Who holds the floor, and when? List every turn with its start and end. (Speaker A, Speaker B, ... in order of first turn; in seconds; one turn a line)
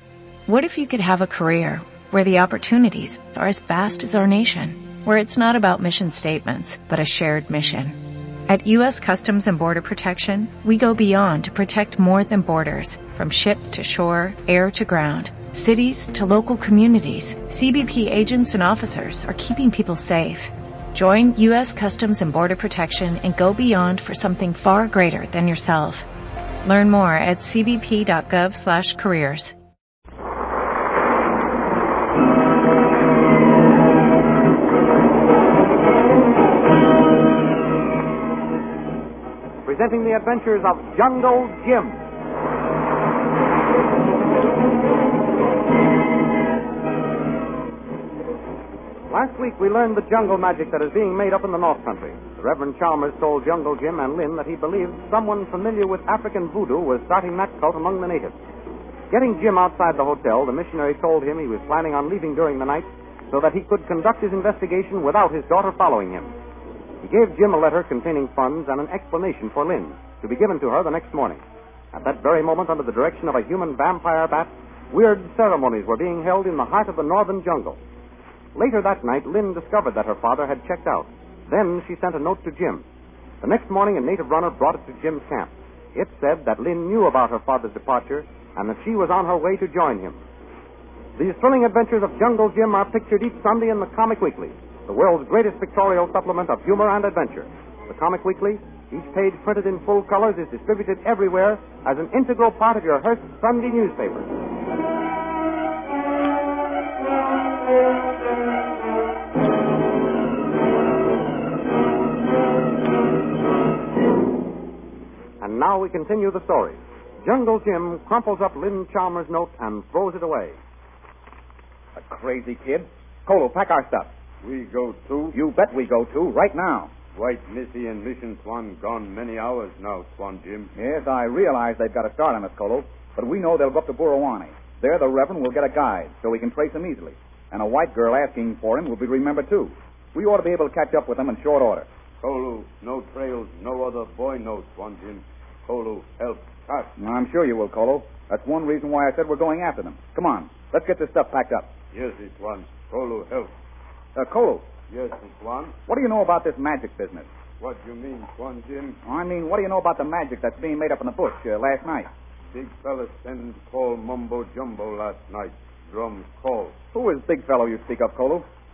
Speaker A: 0.5-26.1
Speaker A: 26.6-29.6
Speaker B: 39.6-42.0
Speaker B: 49.1-58.4
Speaker B: 59.1-66.3
Speaker B: 67.0-71.4
Speaker B: 71.9-77.8
Speaker B: 78.6-82.8
Speaker B: 83.4-90.2
Speaker B: 91.2-104.3
Speaker B: 115.4-120.6
Speaker C: 122.0-124.1
Speaker D: 124.4-125.4
Speaker C: 125.3-126.9
Speaker D: 127.2-130.7
Speaker C: 130.8-141.9
Speaker D: 142.2-146.9
Speaker C: 147.0-151.7
Speaker D: 151.9-153.5
Speaker C: 154.2-154.7
Speaker D: 154.9-155.8
Speaker C: 155.8-157.3
Speaker D: 157.6-159.0
Speaker C: 159.0-162.1
Speaker D: 162.5-166.8
Speaker C: 166.9-168.5